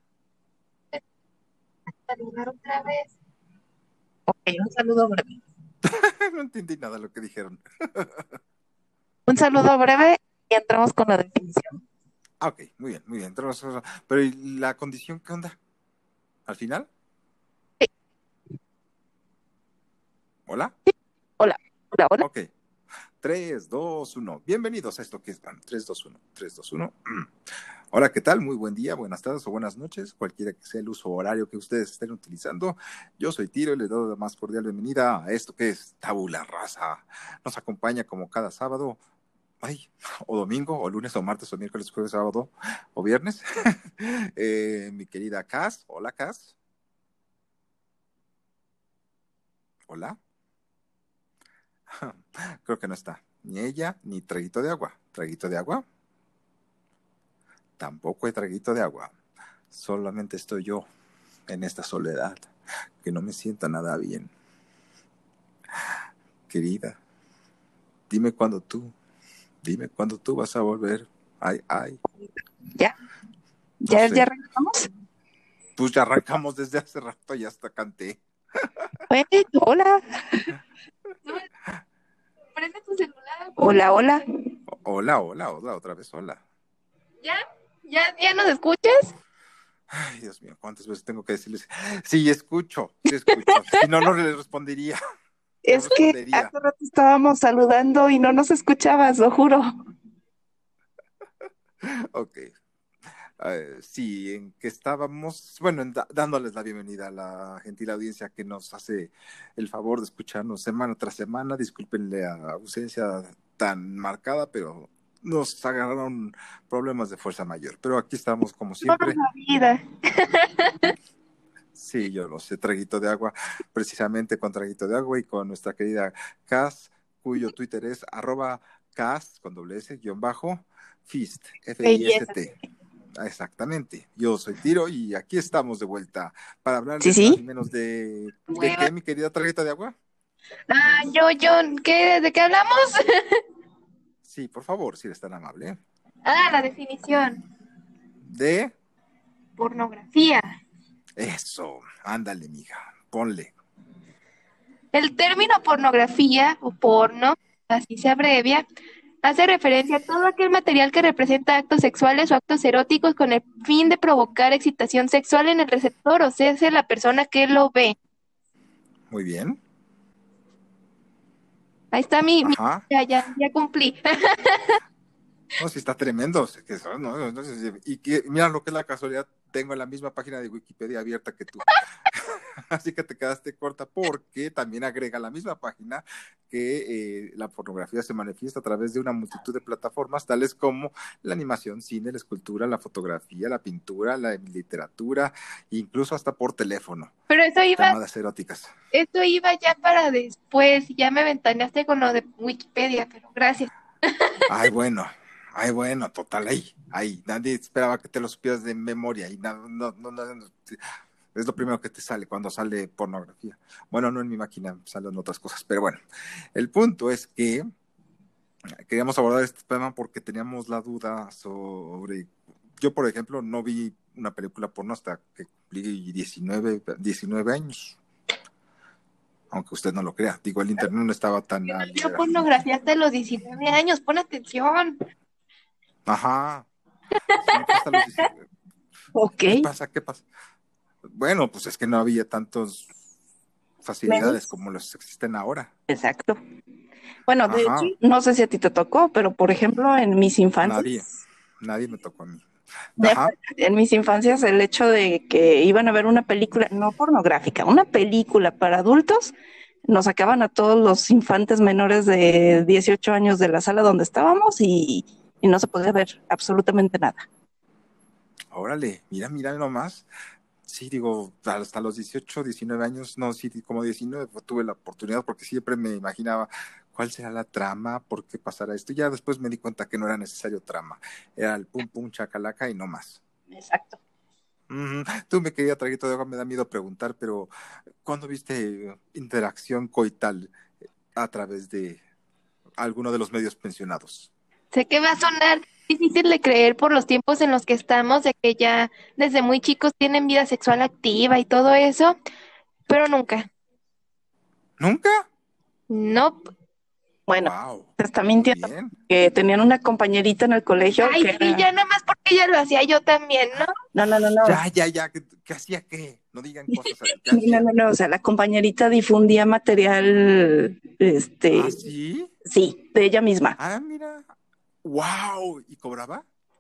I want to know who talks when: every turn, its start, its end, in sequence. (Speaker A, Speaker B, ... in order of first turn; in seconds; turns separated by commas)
Speaker A: 2.0-3.1, Speaker B: 4.3-5.4, Speaker C: 5.8-8.4, Speaker B: 9.3-11.8, Speaker C: 12.4-15.6, Speaker C: 16.4-16.9, Speaker C: 20.5-20.7, Speaker B: 20.9-22.3, Speaker C: 22.2-22.5, Speaker C: 23.2-27.3, Speaker C: 27.9-39.0, Speaker C: 39.6-46.5, Speaker C: 49.9-50.2, Speaker C: 51.9-55.9, Speaker C: 57.8-59.1, Speaker C: 59.7-60.9, Speaker C: 61.5-62.5, Speaker C: 63.0-64.3, Speaker C: 66.5-67.0, Speaker C: 68.1-68.9, Speaker C: 69.6-72.0, Speaker B: 73.8-74.9, Speaker C: 73.9-74.3, Speaker C: 75.8-79.0, Speaker B: 79.1-80.5, Speaker A: 82.6-84.0, Speaker B: 83.6-84.2, Speaker C: 84.7-86.4, Speaker A: 87.2-89.1, Speaker C: 89.9-95.0, Speaker B: 93.3-93.8, Speaker B: 95.6-99.7, Speaker C: 95.7-96.5, Speaker C: 101.8-102.5, Speaker C: 103.4-119.2, Speaker A: 118.8-120.9, Speaker C: 121.8-132.5, Speaker B: 131.8-132.3, Speaker C: 133.2-139.9, Speaker B: 137.0-137.4, Speaker A: 138.5-138.9, Speaker A: 140.7-143.4, Speaker C: 144.2-145.8, Speaker A: 146.2-147.4, Speaker C: 148.2-148.7, Speaker A: 149.6-150.4, Speaker C: 151.2-153.5, Speaker A: 154.9-158.6, Speaker A: 159.2-167.9, Speaker C: 169.1-169.6, Speaker A: 171.9-174.8, Speaker C: 172.4-172.8, Speaker C: 175.6-197.1, Speaker A: 197.3-197.9, Speaker C: 197.8-198.7, Speaker A: 198.9-204.3, Speaker C: 204.5-210.8, Speaker C: 211.3-216.0, Speaker C: 216.5-217.6, Speaker C: 218.8-228.0, Speaker C: 229.5-232.4, Speaker A: 231.6-235.0, Speaker C: 236.1-236.7, Speaker C: 237.4-238.4, Speaker B: 239.1-239.7, Speaker C: 239.5-240.2, Speaker C: 241.1-242.9, Speaker C: 243.8-245.7, Speaker B: 244.1-244.4, Speaker B: 245.9-246.4, Speaker B: 247.3-251.0, Speaker C: 247.5-247.9, Speaker C: 250.6-251.1, Speaker C: 251.6-252.4, Speaker C: 253.0-253.3, Speaker B: 253.0-259.3, Speaker B: 259.9-267.3, Speaker C: 268.5-270.1, Speaker C: 270.6-283.2, Speaker B: 283.5-284.0, Speaker C: 284.7-287.5, Speaker C: 288.0-290.5, Speaker C: 291.1-292.0, Speaker C: 292.8-294.3, Speaker A: 294.7-302.1, Speaker A: 302.9-303.5, Speaker C: 304.8-305.3, Speaker A: 305.9-306.5, Speaker B: 307.3-311.6, Speaker C: 307.4-308.0, Speaker C: 308.5-308.9, Speaker A: 311.0-313.7, Speaker B: 313.9-314.6, Speaker C: 314.4-317.7, Speaker B: 316.8-321.8, Speaker C: 321.5-322.3, Speaker B: 322.4-323.6, Speaker C: 323.6-324.2, Speaker C: 324.8-326.2